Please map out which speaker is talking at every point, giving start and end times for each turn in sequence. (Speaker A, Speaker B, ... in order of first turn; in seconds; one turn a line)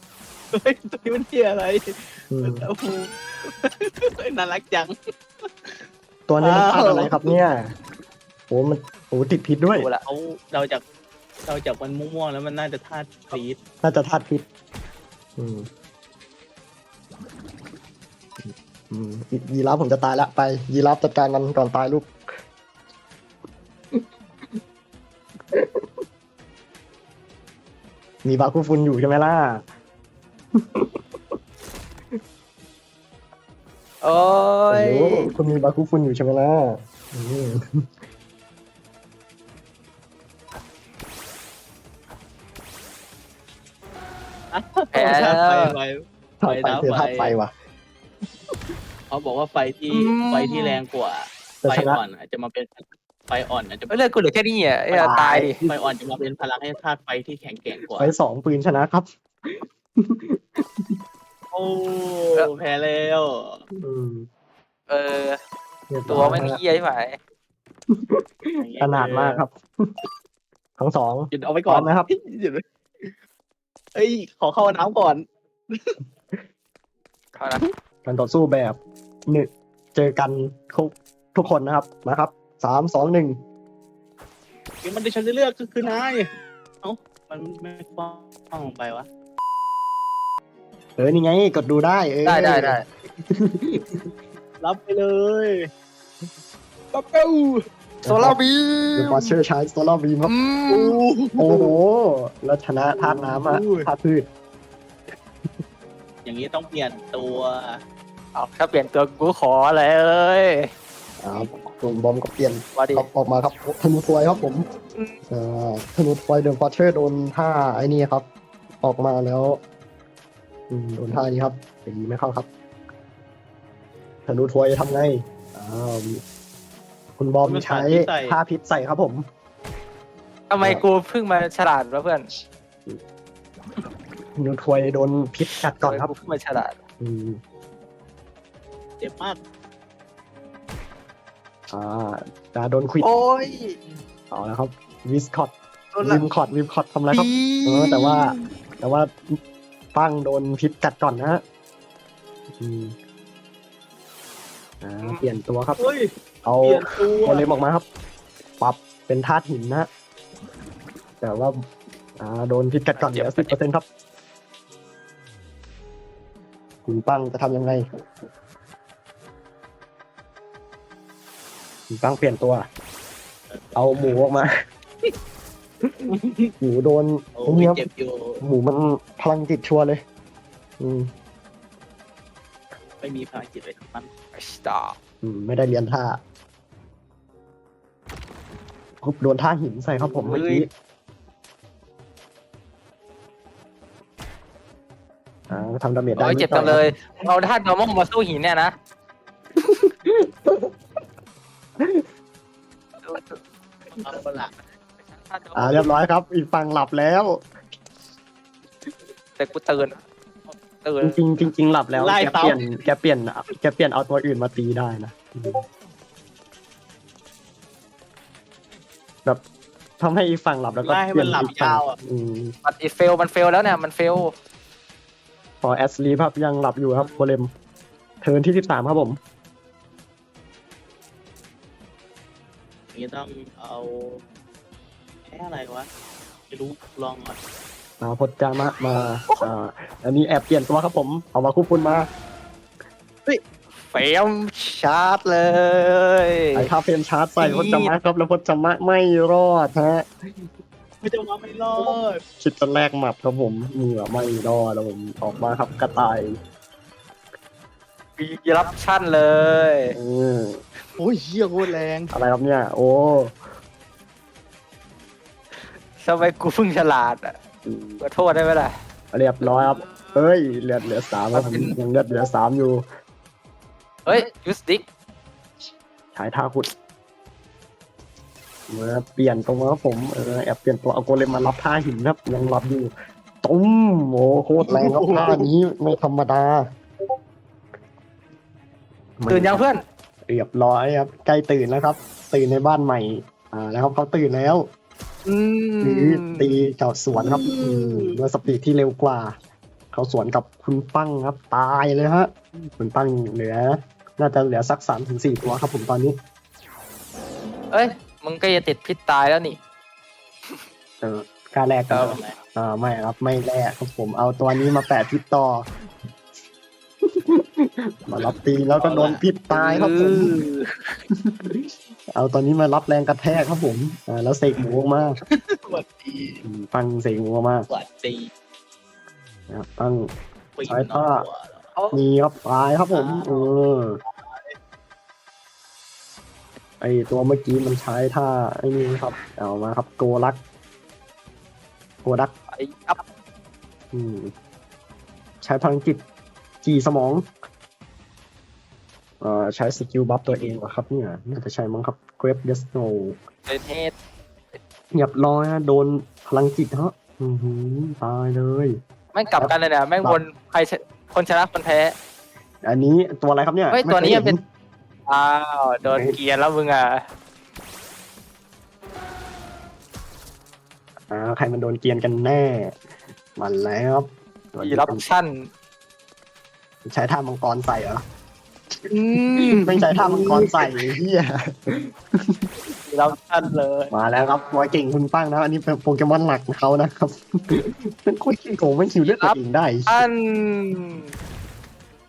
Speaker A: 0.5-5.7
Speaker B: 2.3-2.7
Speaker B: 6.3-7.7
Speaker A: 6.4-7.3
Speaker B: 8.5-9.9
Speaker C: 9.8-10.0
Speaker A: 10.1-10.8
Speaker A: 11.5-13.6
Speaker B: 13.8-14.4
Speaker B: 15.4-15.7
Speaker B: 18.4-22.1
Speaker B: 23.9-24.6
Speaker B: 25.5-25.9
Speaker B: 28.2-29.6
Speaker B: 30.6-31.4
Speaker C: 34.0-35.3
Speaker B: 34.7-37.9
Speaker A: 44.5-47.4
Speaker C: 44.9-45.8
Speaker B: 46.4-47.5
Speaker A: 49.1-54.0
Speaker C: 49.9-50.8
Speaker B: 51.6-52.0
Speaker C: 53.9-55.6
Speaker B: 54.9-55.7
Speaker A: 55.6-58.1
Speaker B: 57.9-61.0
Speaker A: 61.5-63.6
Speaker B: 63.8-64.3
Speaker C: 64.9-65.4
Speaker B: 65.9-66.6
Speaker C: 66.1-67.2
Speaker B: 67.9-69.9
Speaker A: 68.6-69.4
Speaker B: 70.8-72.1
Speaker A: 71.3-73.1
Speaker A: 74.0-76.0
Speaker C: 77.4-77.6
Speaker B: 78.0-83.4
Speaker A: 84.8-86.3
Speaker A: 86.8-89.1
Speaker B: 91.0-94.1
Speaker C: 92.2-92.8
Speaker A: 94.6-95.7
Speaker A: 96.9-97.6
Speaker B: 98.0-98.4
Speaker C: 98.1-99.3
Speaker B: 99.0-100.3
Speaker C: 100.3-101.0
Speaker A: 100.7-101.7
Speaker B: 101.4-104.3
Speaker A: 102.9-103.9
Speaker A: 106.2-107.8
Speaker C: 108.3-110.7
Speaker B: 111.2-114.7
Speaker C: 112.8-113.1
Speaker B: 115.3-118.3
Speaker B: 118.8-119.6
Speaker B: 120.7-122.5
Speaker B: 124.3-126.2
Speaker B: 127.2-129.3
Speaker A: 127.4-128.4
Speaker C: 130.5-132.3
Speaker B: 134.4-136.1
Speaker C: 135.7-136.8
Speaker B: 137.0-137.4
Speaker A: 139.0-139.4
Speaker B: 141.7-143.1
Speaker C: 143.0-143.8
Speaker B: 144.3-149.4
Speaker C: 147.1-148.2
Speaker B: 149.9-151.4
Speaker B: 152.6-152.9
Speaker B: 154.8-155.8
Speaker A: 155.8-156.1
Speaker B: 156.4-157.9
Speaker A: 156.6-157.5
Speaker B: 158.6-159.9
Speaker B: 161.2-161.5
Speaker B: 162.2-163.8
Speaker C: 162.9-163.6
Speaker B: 166.9-167.8
Speaker B: 171.9-172.7
Speaker A: 173.5-174.2
Speaker B: 173.8-174.5
Speaker A: 176.1-176.5
Speaker B: 176.6-177.8
Speaker A: 177.4-178.4
Speaker B: 178.4-180.0
Speaker B: 180.8-181.1
Speaker A: 183.0-184.1
Speaker C: 184.3-185.0
Speaker B: 185.2-186.2
Speaker B: 189.0-190.7
Speaker C: 190.1-190.7
Speaker B: 195.5-196.9
Speaker C: 196.2-198.7
Speaker B: 199.6-200.7
Speaker B: 201.8-202.1
Speaker C: 203.0-203.4
Speaker A: 204.0-204.5
Speaker C: 205.1-205.9
Speaker B: 205.6-207.4
Speaker C: 209.4-211.2
Speaker B: 211.0-215.6
Speaker A: 212.0-212.9
Speaker B: 220.0-222.5
Speaker A: 220.8-222.0
Speaker C: 222.7-224.3
Speaker B: 225.6-227.5
Speaker B: 228.2-229.2
Speaker A: 232.9-234.2
Speaker A: 235.3-235.9
Speaker A: 236.5-237.4
Speaker B: 238.0-242.1
Speaker C: 243.3-246.7
Speaker B: 246.6-250.1
Speaker C: 247.4-247.9
Speaker A: 251.0-252.2
Speaker B: 252.4-256.3
Speaker C: 258.2-259.9
Speaker B: 259.9-260.6
Speaker A: 261.0-262.1
Speaker B: 262.1-263.4
Speaker C: 266.0-267.4
Speaker B: 267.6-268.0
Speaker C: 268.0-268.7
Speaker B: 269.1-272.9
Speaker C: 269.4-270.2
Speaker C: 271.3-271.8
Speaker C: 274.1-274.9
Speaker B: 276.1-276.7
Speaker B: 278.7-286.6
Speaker A: 284.6-285.5
Speaker B: 289.2-289.6
Speaker C: 289.3-289.8
Speaker B: 290.3-294.7
Speaker C: 295.3-296.5
Speaker B: 295.8-299.4
Speaker A: 297.3-298.1
Speaker B: 299.9-306.2
Speaker C: 307.7-309.6
Speaker B: 311.0-315.7
Speaker C: 311.9-312.2
Speaker A: 312.0-312.4
Speaker B: 317.0-320.3
Speaker A: 318.8-319.3
Speaker C: 319.5-321.0
Speaker B: 321.1-325.2
Speaker A: 325.3-326.4
Speaker B: 326.4-327.7
Speaker A: 327.7-328.3
Speaker B: 329.5-331.2
Speaker A: 330.6-331.7
Speaker C: 331.8-332.0
Speaker B: 331.9-334.0
Speaker A: 332.9-333.5
Speaker A: 334.0-334.5
Speaker B: 336.8-340.4
Speaker B: 342.0-342.3
Speaker C: 342.5-343.0
Speaker B: 343.9-344.3
Speaker B: 345.4-346.0
Speaker B: 346.6-347.3
Speaker B: 349.2-353.2
Speaker C: 353.5-353.9
Speaker B: 354.9-358.8
Speaker C: 359.1-361.9
Speaker B: 359.4-360.2
Speaker B: 362.6-364.4
Speaker C: 363.7-364.4
Speaker C: 365.1-367.0
Speaker B: 371.1-372.8
Speaker B: 373.4-375.1
Speaker C: 374.6-375.5
Speaker B: 376.9-378.0
Speaker C: 378.9-380.6
Speaker B: 379.4-382.5
Speaker C: 382.9-383.9
Speaker B: 383.9-390.0
Speaker C: 389.1-389.4
Speaker C: 389.9-391.1